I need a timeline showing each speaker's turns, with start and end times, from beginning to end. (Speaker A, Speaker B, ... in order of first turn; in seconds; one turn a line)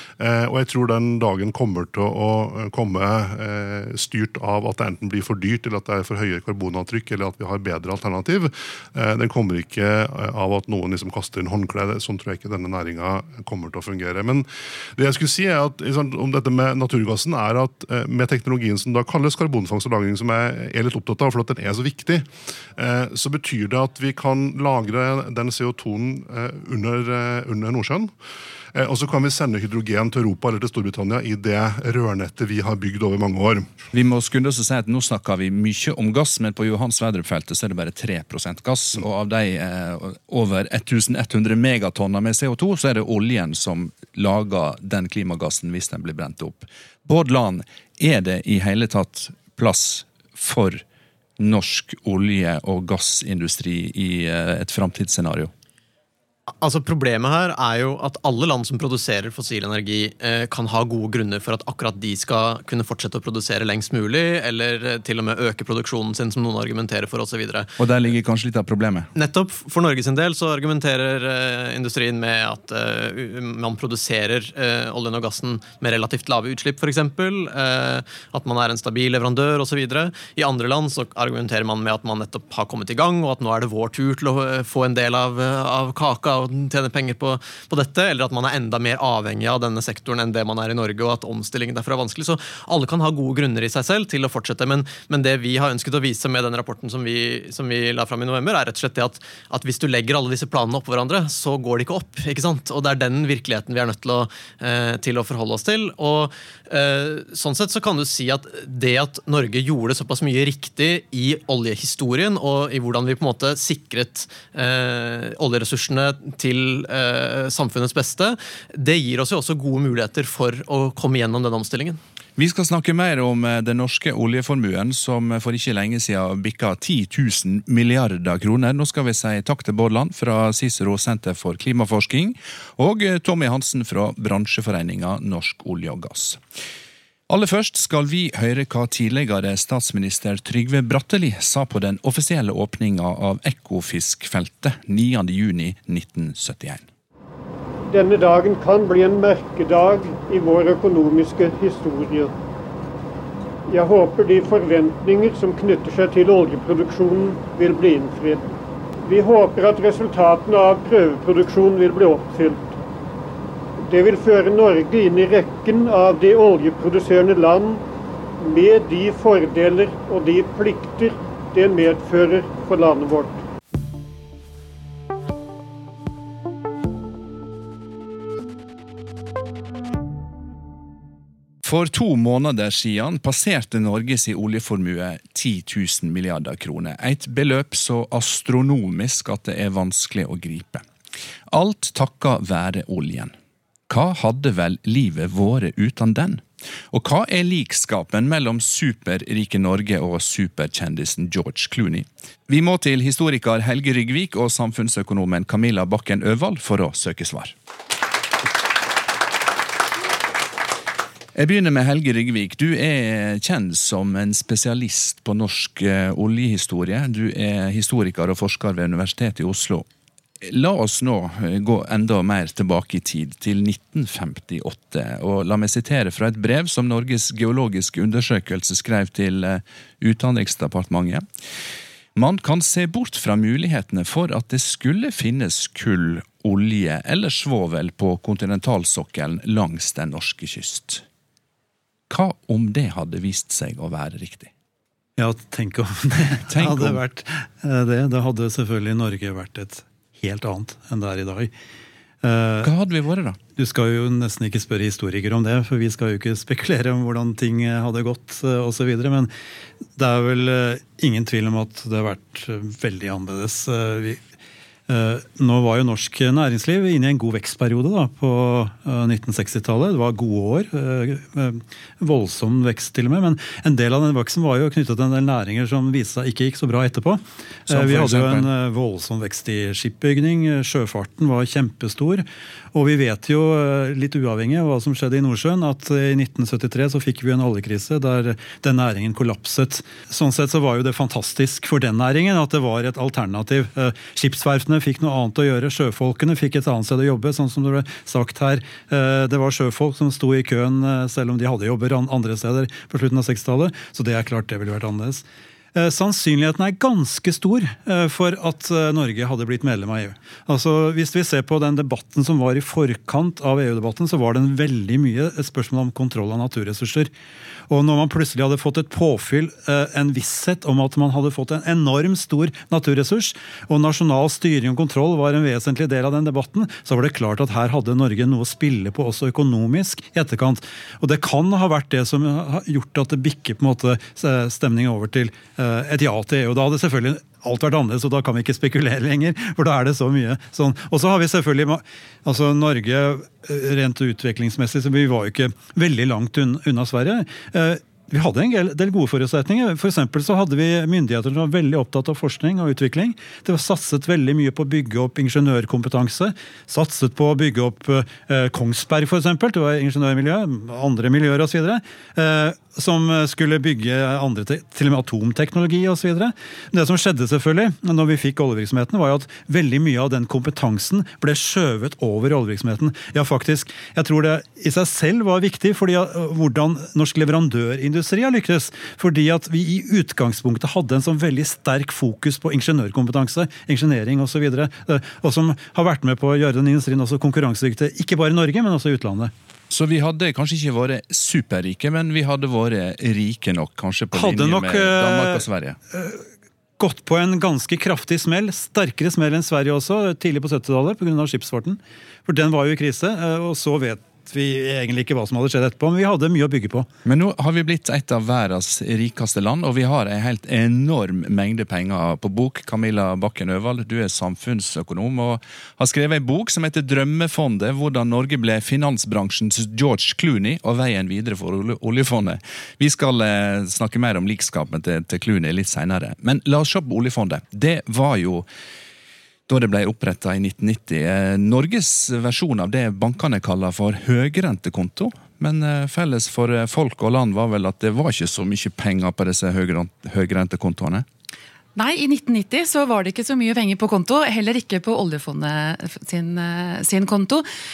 Speaker A: 0.2-28.1
Speaker A: 28.8-33.7
Speaker B: 33.9-50.8
Speaker B: 51.4-55.5
Speaker C: 56.6-67.7
Speaker B: 67.8-69.1
Speaker C: 69.2-122.0
Speaker B: 122.4-136.4
Speaker B: 137.3-146.9
Speaker D: 147.9-152.3
Speaker D: 153.7-158.5
Speaker D: 159.1-162.7
Speaker D: 163.9-167.8
Speaker D: 168.4-173.4
Speaker B: 181.6-190.9
Speaker B: 191.5-193.3
Speaker B: 193.9-207.5
Speaker B: 211.3-219.9
Speaker B: 220.4-231.2
Speaker B: 232.2-241.0
Speaker B: 242.1-244.5
Speaker E: 245.2-251.5
Speaker B: 246.5-247.0
Speaker E: 252.2-252.7
Speaker B: 252.6-253.4
Speaker E: 253.6-259.3
Speaker E: 260.0-264.2
Speaker E: 264.9-305.2
Speaker B: 277.7-278.5
Speaker E: 305.8-317.1
Speaker E: 317.7-389.3
Speaker B: 389.7-395.8
Speaker E: 394.1-396.2
Speaker E: 396.8-406.9
Speaker B: 407.1-428.5
Speaker B: 429.5-441.1
Speaker F: 441.8-447.5